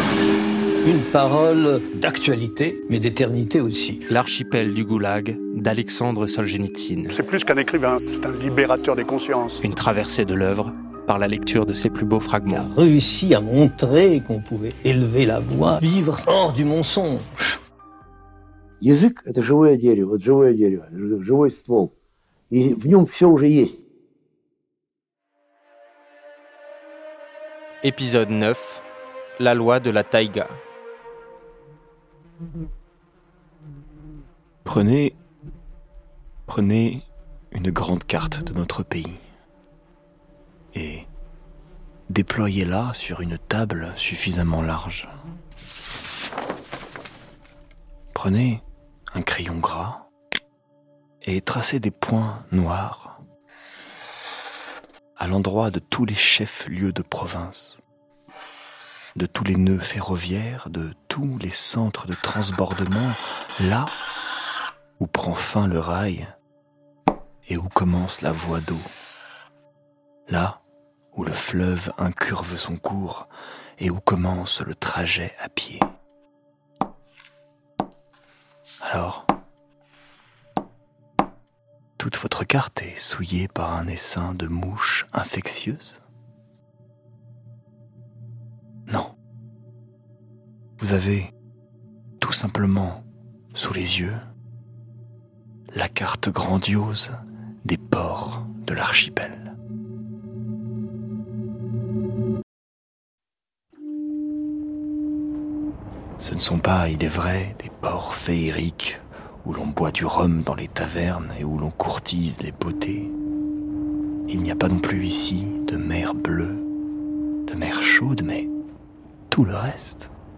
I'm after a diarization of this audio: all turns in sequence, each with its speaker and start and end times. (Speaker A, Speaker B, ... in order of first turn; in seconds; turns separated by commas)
Speaker A: 0.8-4.0, Speaker B: 4.1-7.1, Speaker C: 7.1-9.6, Speaker B: 9.6-12.7, Speaker A: 12.6-17.6, Speaker D: 18.8-21.9, Speaker D: 22.5-23.8, Speaker B: 27.8-28.8, Speaker B: 29.4-30.6, Speaker E: 34.7-35.2, Speaker E: 36.5-39.2, Speaker E: 40.7-41.1, Speaker E: 42.1-45.1, Speaker E: 48.1-50.1, Speaker E: 51.2-53.2, Speaker E: 55.2-57.8, Speaker E: 59.2-63.9, Speaker E: 65.0-66.3, Speaker E: 67.5-68.9, Speaker E: 70.3-70.6, Speaker E: 71.1-75.9, Speaker E: 78.8-79.3, Speaker E: 82.0-86.0, Speaker E: 88.9-89.1, Speaker E: 90.8-91.3, Speaker E: 92.2-94.2, Speaker E: 95.7-99.5, Speaker E: 106.2-113.1, Speaker E: 114.3-116.6, Speaker E: 117.5-118.5, Speaker E: 119.3-120.1